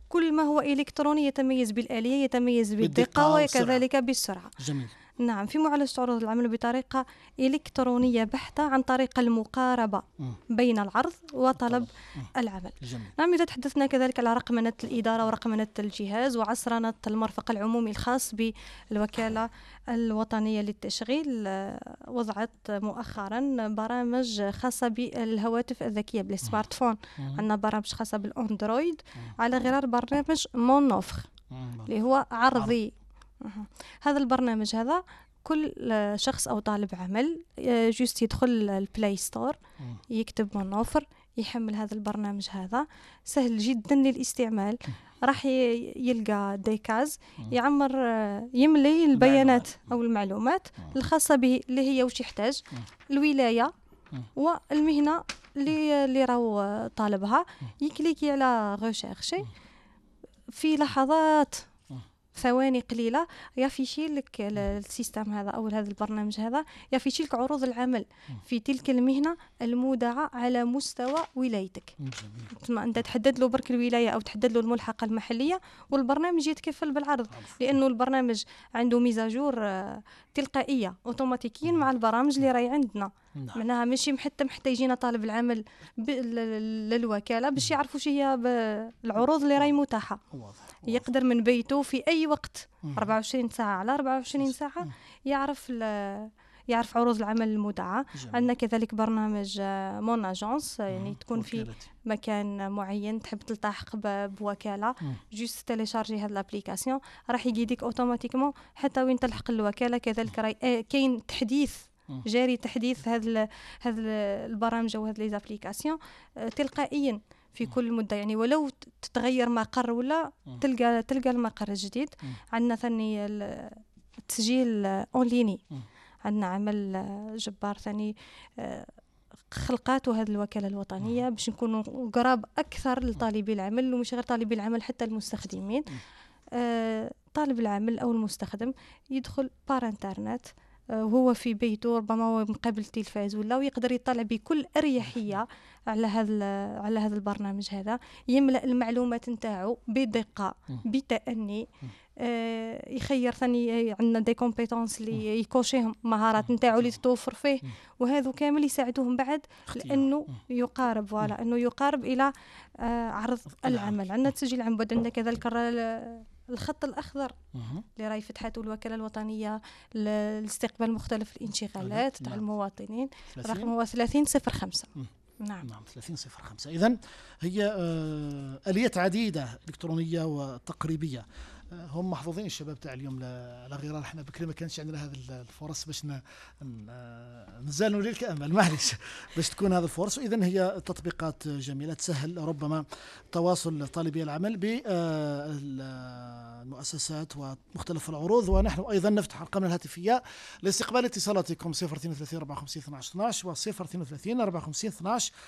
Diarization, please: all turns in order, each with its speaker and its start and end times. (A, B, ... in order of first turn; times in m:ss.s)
0:00.1-0:04.5 A
0:02.8-0:03.8 B
0:04.6-0:04.9 B
0:05.2-0:31.3 A
0:11.6-0:12.3 B
0:12.8-0:13.1 B
0:31.5-0:31.9 B
0:31.8-0:39.6 A
0:40.1-0:53.7 A
0:49.1-0:49.7 B
0:54.4-0:59.5 A
1:00.5-1:01.7 A
1:02.3-1:11.9 A
1:12.0-1:12.5 B
1:12.5-1:30.2 A
1:30.3-1:31.0 B
1:30.8-2:05.6 A
1:32.8-1:33.1 B
1:38.1-1:38.5 B
1:40.9-1:41.8 B
2:06.2-2:08.9 A
2:09.5-2:16.0 A
2:16.5-2:31.7 A
2:32.2-2:47.3 A
2:39.7-2:40.1 B
2:43.6-2:44.0 B
2:47.5-2:47.8 B
2:48.0-2:55.7 A
2:51.8-2:52.4 B
2:53.3-2:53.7 B
2:55.6-3:25.3 B